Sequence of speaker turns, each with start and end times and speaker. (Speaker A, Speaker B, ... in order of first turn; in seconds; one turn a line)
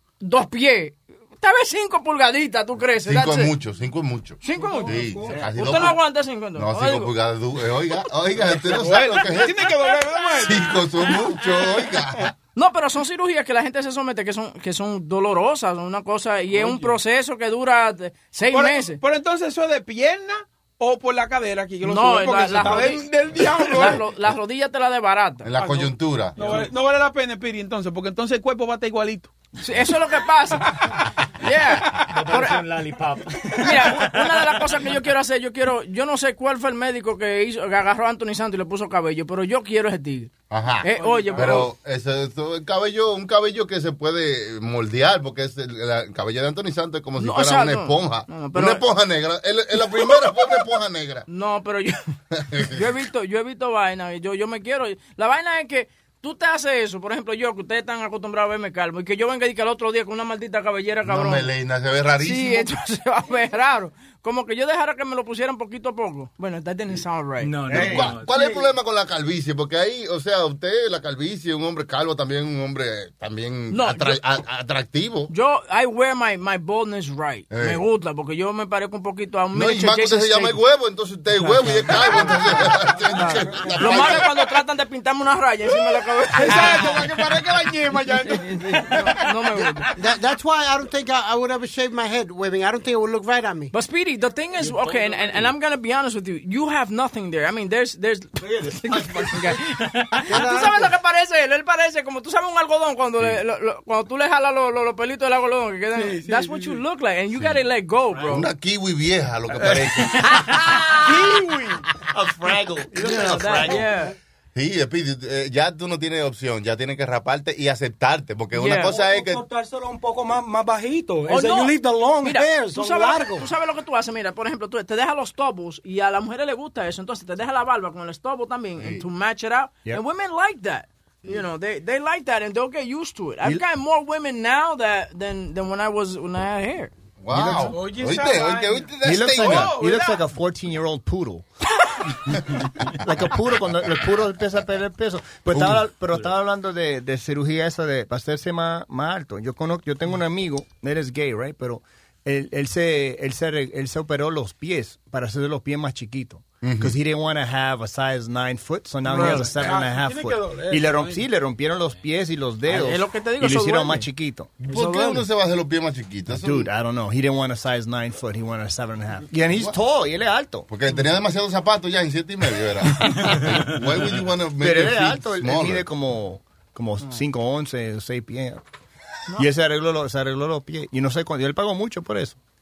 Speaker A: 0.2-3.5
Speaker B: 3.0-6.0
Speaker A: 4.4-7.1
Speaker C: 4.6-5.4
Speaker B: 6.5-9.7
Speaker C: 8.4-11.7
Speaker B: 10.4-12.3
Speaker A: 12.6-19.0
Speaker C: 16.5-16.9
Speaker C: 18.5-24.0
Speaker A: 21.8-25.5
Speaker B: 25.4-26.6
Speaker C: 25.6-29.3
Speaker A: 29.6-30.8
Speaker A: 31.4-32.6
Speaker D: 32.2-33.2
Speaker A: 33.6-40.3
Speaker B: 40.5-51.2
Speaker A: 40.8-41.7
Speaker C: 41.0-41.6
Speaker A: 47.2-48.8
Speaker A: 51.3-52.1
Speaker B: 52.4-52.8
Speaker A: 52.7-61.5
Speaker B: 61.1-62.7
Speaker A: 62.2-67.5
Speaker D: 67.5-68.5
Speaker B: 67.7-75.3
Speaker A: 73.7-74.2
Speaker A: 75.3-80.6
Speaker B: 77.5-77.8
Speaker B: 79.5-84.3
Speaker C: 81.7-82.4
Speaker A: 83.2-86.9
Speaker C: 83.2-84.0
Speaker C: 86.3-89.8
Speaker A: 88.9-89.9
Speaker E: 90.0-93.7
Speaker A: 93.7-108.5
Speaker C: 98.6-99.3
Speaker E: 100.3-101.0
Speaker C: 106.0-106.8
Speaker B: 108.3-110.4
Speaker F: 111.0-111.5
Speaker C: 111.0-111.5
Speaker F: 112.2-113.8
Speaker A: 113.0-114.1
Speaker B: 114.5-119.5
Speaker A: 118.5-119.0
Speaker G: 118.8-123.5
Speaker A: 121.3-136.9
Speaker B: 128.8-129.1
Speaker B: 137.2-139.8
Speaker H: 137.3-137.8
Speaker C: 137.7-140.2
Speaker H: 139.0-141.5
Speaker H: 142.9-164.5
Speaker B: 156.6-156.9
Speaker C: 159.1-161.2
Speaker A: 162.7-164.1
Speaker A: 164.6-165.2
Speaker B: 164.7-166.7
Speaker H: 166.3-170.7
Speaker B: 170.7-175.9
Speaker H: 174.6-178.6
Speaker H: 179.3-182.4